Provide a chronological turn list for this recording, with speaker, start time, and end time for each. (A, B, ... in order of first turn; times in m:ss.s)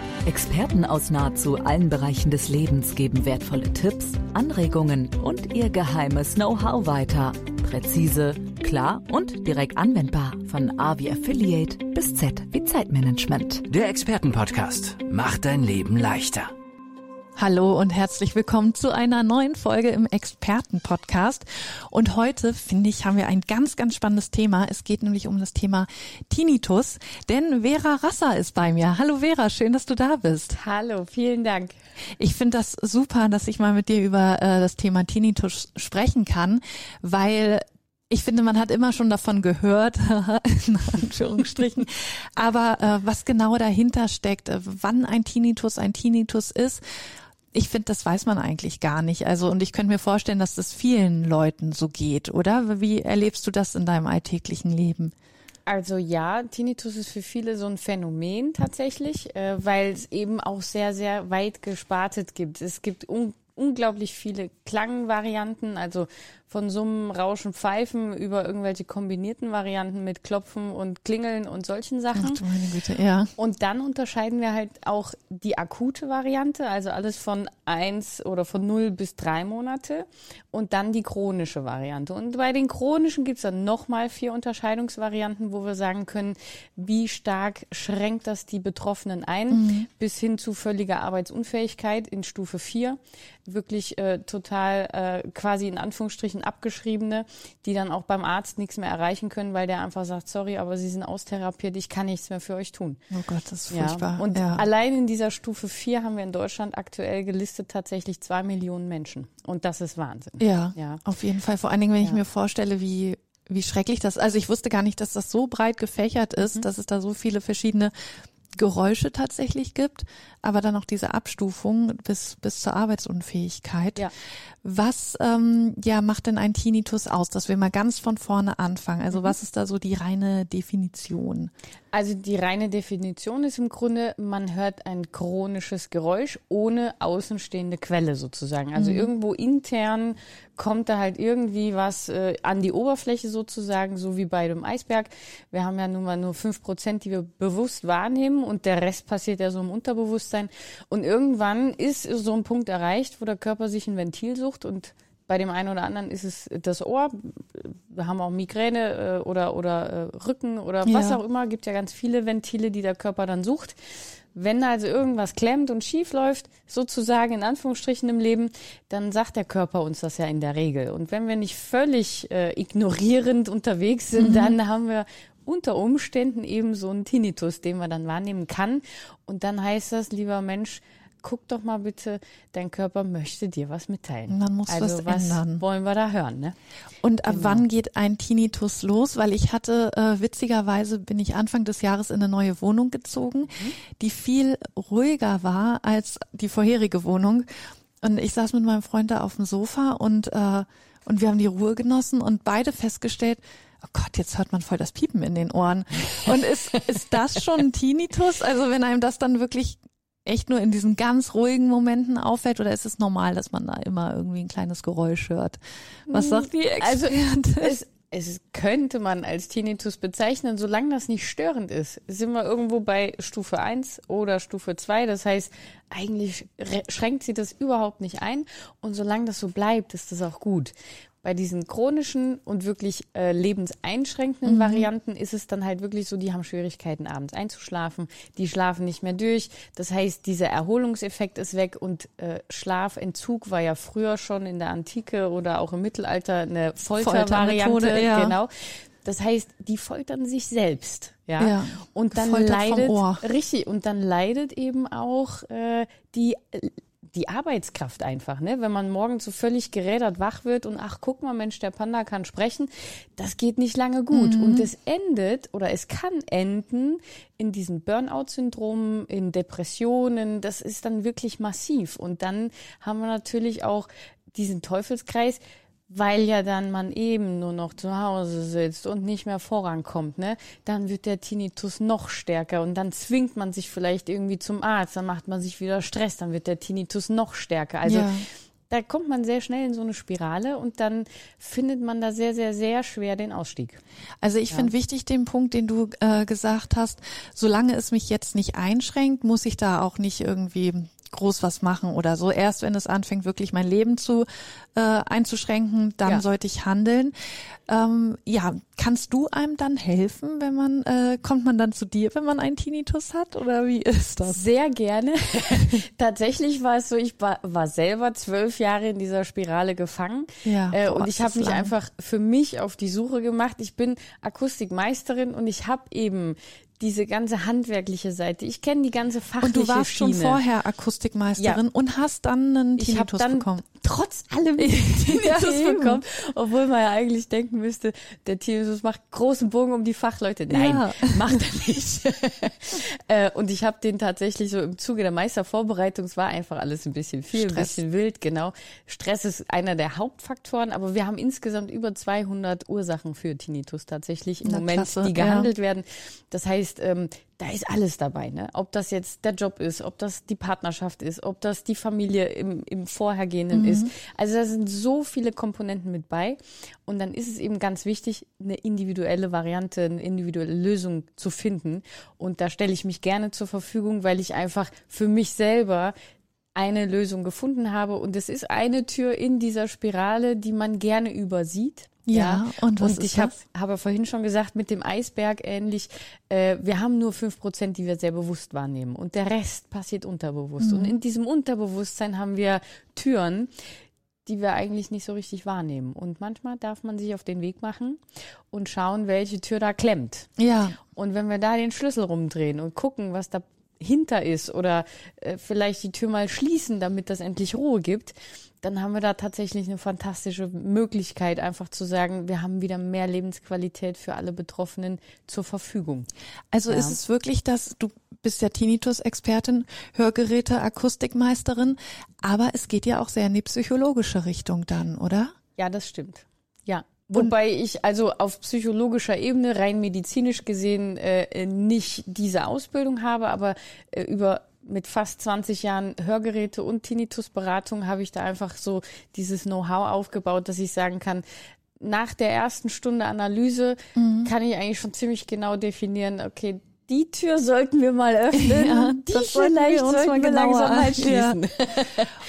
0:00.3-0:13.7 A
0:13.7-0:16.5 B
0:17.4-0:30.6 C
0:30.6-0:31.7 D
0:32.2-0:46.8 C
0:47.5-0:55.1 C
0:55.7-1:12.4 D
1:12.1-1:13.3 C
1:13.4-1:33.0 D
1:29.5-1:29.9 C
1:33.5-1:43.0 D
1:43.1-1:44.7 C
1:44.6-1:50.4 D
1:50.4-1:57.9 C
1:58.6-2:04.1 C
2:04.6-2:11.5 C
2:11.9-2:43.7 D
2:18.8-2:19.1 C
2:40.8-2:41.2 C
2:44.4-3:04.7 D
2:54.2-2:54.6 C
3:04.3-3:05.6 C
3:05.3-3:06.5 D
3:07.0-3:17.5 C
3:18.0-3:37.8 C
3:37.8-3:50.7 D
3:51.2-4:08.4 D
3:54.4-3:54.9 C
4:07.0-4:08.4 C
4:09.0-4:12.5 D
4:11.4-4:13.2 C
4:13.3-4:35.4 D
4:24.1-4:24.7 C
4:36.0-4:48.0 D
4:47.8-4:48.2 C
4:48.7-4:53.8 D
4:54.2-5:07.1 C
5:07.7-5:14.5 C
5:14.6-5:15.2 D
5:15.5-5:15.8 C
5:16.0-5:20.3 D
5:20.4-5:21.8 C
5:21.1-5:30.4 D
5:29.4-5:33.7 C
5:32.9-5:34.5 D
5:34.6-5:36.0 C
5:36.1-5:40.5 D
5:40.5-5:41.4 C
5:41.0-6:15.9 D
5:47.3-5:47.8 C
5:54.4-5:55.5 C
6:03.5-6:03.9 C
6:16.6-6:22.4 D
6:22.1-6:23.4 C
6:23.0-6:33.5 D
6:30.6-6:31.0 C
6:34.3-6:38.0 D
6:38.5-6:40.3 D
6:40.4-6:40.8 C
6:41.0-6:56.0 D
6:56.5-7:05.3 C
7:05.7-7:06.1 B
7:05.9-7:06.2 D
7:06.8-7:21.2 D
7:21.8-7:23.8 D
7:24.0-7:24.3 C
7:24.4-7:32.1 D
7:28.3-7:31.4 C